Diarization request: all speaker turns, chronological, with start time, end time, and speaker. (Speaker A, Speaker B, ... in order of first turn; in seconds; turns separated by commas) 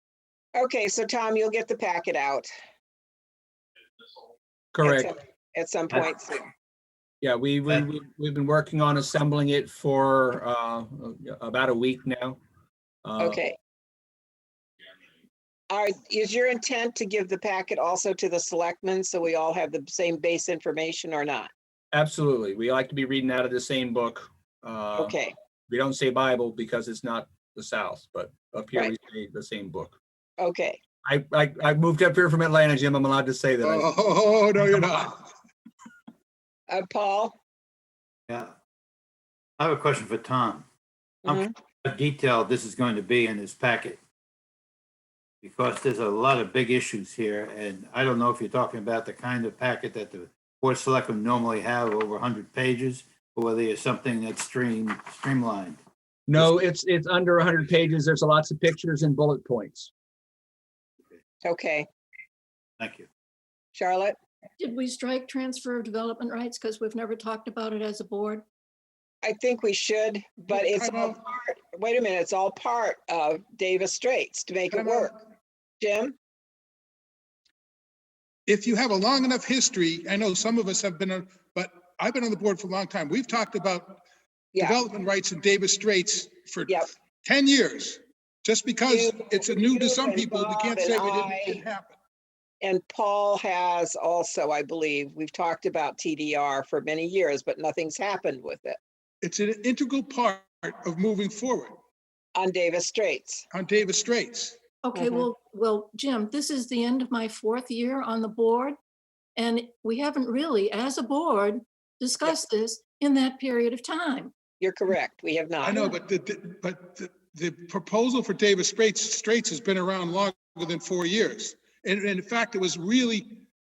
Speaker A: 0.6-2.5, Speaker B: 4.7-5.2, Speaker A: 4.8-6.5, Speaker B: 7.2-12.4, Speaker B: 13.0-13.4, Speaker A: 13.2-13.6, Speaker A: 15.7-21.5, Speaker B: 21.9-25.1, Speaker A: 25.0-25.3, Speaker B: 25.7-30.0, Speaker A: 30.4-30.8, Speaker B: 31.1-33.9, Speaker C: 33.6-35.3, Speaker A: 36.7-37.4, Speaker D: 39.6-40.6, Speaker A: 41.2-41.5, Speaker D: 41.2-44.0, Speaker D: 45.4-55.8, Speaker B: 56.3-59.9, Speaker A: 61.4-61.9, Speaker D: 62.8-63.1, Speaker A: 63.8-64.2, Speaker E: 64.6-68.4, Speaker A: 69.2-75.1, Speaker C: 70.5-71.2, Speaker C: 74.7-75.1, Speaker A: 75.8-76.2, Speaker C: 78.5-84.0, Speaker C: 84.5-92.0, Speaker A: 84.6-84.8, Speaker A: 88.9-91.6, Speaker A: 92.6-98.8, Speaker C: 99.2-101.8, Speaker A: 102.3-103.5, Speaker C: 103.5-104.6, Speaker E: 104.8-108.8, Speaker A: 105.0-105.3, Speaker E: 109.4-114.3, Speaker A: 114.6-115.8, Speaker C: 115.6-123.4, Speaker E: 115.7-116.0